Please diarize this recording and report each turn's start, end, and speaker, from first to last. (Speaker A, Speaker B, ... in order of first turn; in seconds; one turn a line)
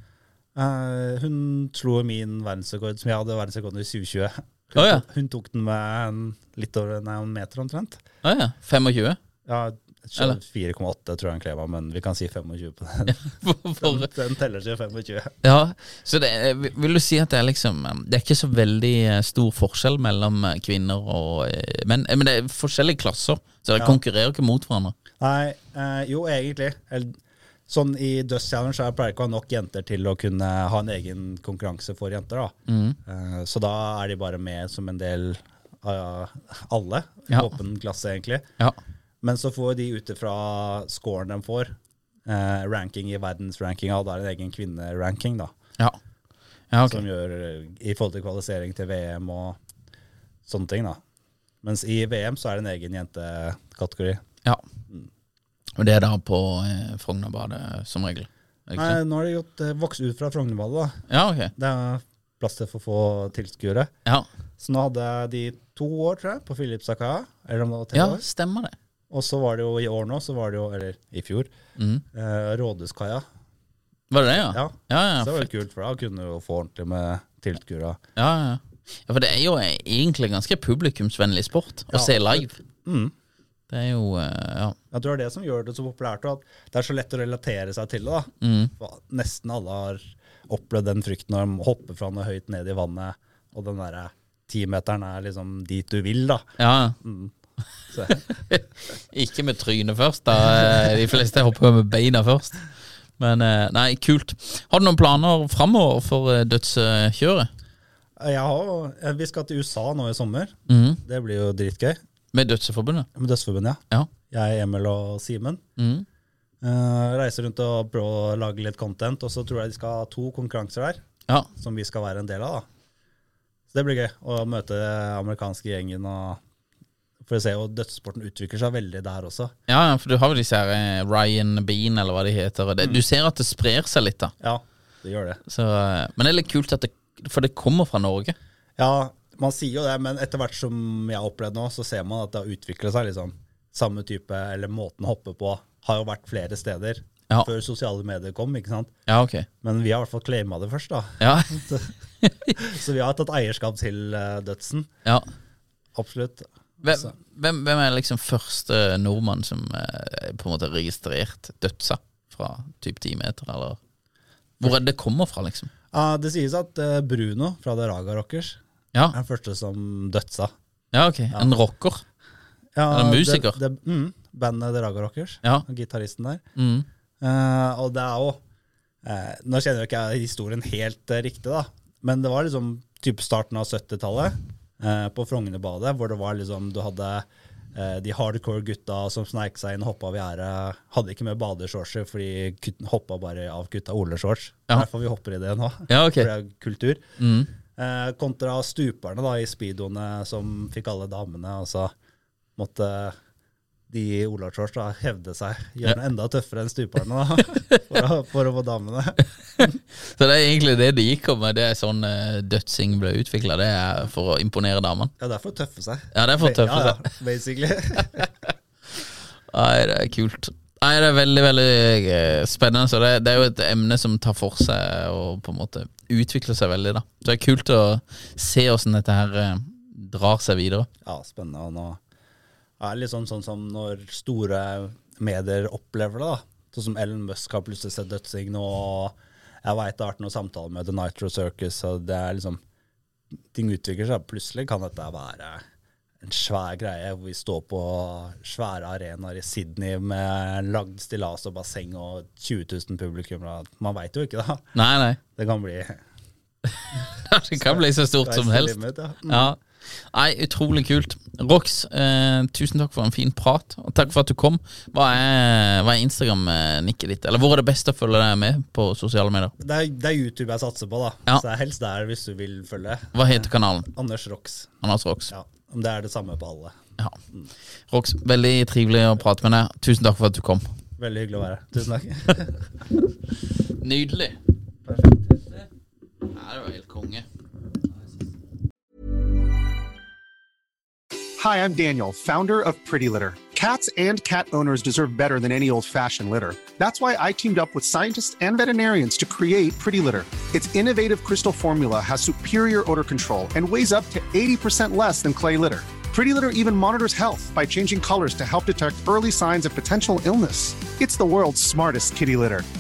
Speaker A: 0.5-8.0
Speaker B: 4.7-5.0
Speaker B: 8.2-9.2
Speaker A: 9.4-15.4
Speaker B: 13.1-14.1
Speaker B: 15.4-24.9
Speaker A: 25.2-32.5
Speaker B: 32.7-33.0
Speaker A: 33.0-38.5
Speaker A: 39.2-45.5
Speaker B: 46.7-47.0
Speaker A: 46.9-49.6
Speaker A: 50.5-51.0
Speaker A: 51.6-54.2
Speaker B: 55.8-59.0
Speaker A: 58.8-61.0
Speaker B: 61.1-61.5
Speaker A: 61.5-63.9
Speaker A: 64.6-68.2
Speaker B: 67.9-68.7
Speaker A: 69.1-71.5
Speaker B: 71.8-72.0
Speaker A: 72.1-73.2
Speaker B: 74.1-75.5
Speaker A: 74.3-78.0
Speaker B: 78.2-82.6
Speaker A: 81.9-83.1
Speaker B: 83.7-84.8
Speaker A: 84.9-96.5
Speaker B: 88.4-88.7
Speaker B: 96.6-97.0
Speaker A: 97.0-97.3
Speaker A: 97.9-98.2
Speaker B: 98.5-102.6
Speaker B: 103.2-107.5
Speaker A: 108.2-112.0
Speaker B: 110.7-111.0
Speaker B: 112.3-113.1
Speaker A: 113.1-115.6
Speaker B: 115.8-116.0
Speaker A: 116.6-121.0
Speaker A: 121.6-122.7
Speaker A: 123.7-126.4
Speaker A: 127.2-129.5
Speaker B: 129.7-134.3
Speaker A: 134.4-135.4
Speaker B: 135.5-138.3
Speaker A: 138.8-148.9
Speaker B: 149.1-149.5
Speaker A: 149.6-151.9
Speaker B: 151.2-151.6
Speaker B: 152.2-152.5
Speaker A: 152.5-154.9
Speaker A: 155.9-157.1
Speaker B: 156.8-163.8
Speaker B: 164.6-165.7
Speaker A: 165.9-168.6
Speaker A: 169.1-170.5
Speaker B: 170.9-172.0
Speaker A: 172.8-176.4
Speaker B: 172.9-173.6
Speaker B: 176.6-176.9
Speaker A: 177.2-178.4
Speaker A: 179.0-197.0
Speaker B: 195.9-196.3
Speaker B: 197.2-197.5
Speaker A: 197.8-201.9
Speaker A: 202.6-203.1
Speaker A: 203.9-209.7
Speaker B: 209.6-215.1
Speaker A: 215.2-218.3
Speaker B: 216.1-217.0
Speaker B: 219.5-230.9
Speaker A: 231.0-232.0
Speaker A: 232.8-242.6
Speaker A: 243.5-245.6
Speaker A: 246.2-254.7
Speaker B: 254.7-255.2
Speaker A: 255.3-256.0
Speaker B: 256.6-269.5
Speaker A: 257.6-259.5
Speaker A: 269.6-274.8
Speaker B: 273.1-273.9
Speaker B: 274.8-275.3
Speaker A: 275.3-276.8
Speaker B: 277.9-280.7
Speaker A: 281.0-282.6
Speaker B: 283.8-284.4
Speaker A: 284.9-285.6
Speaker B: 286.3-287.2
Speaker C: 291.4-312.6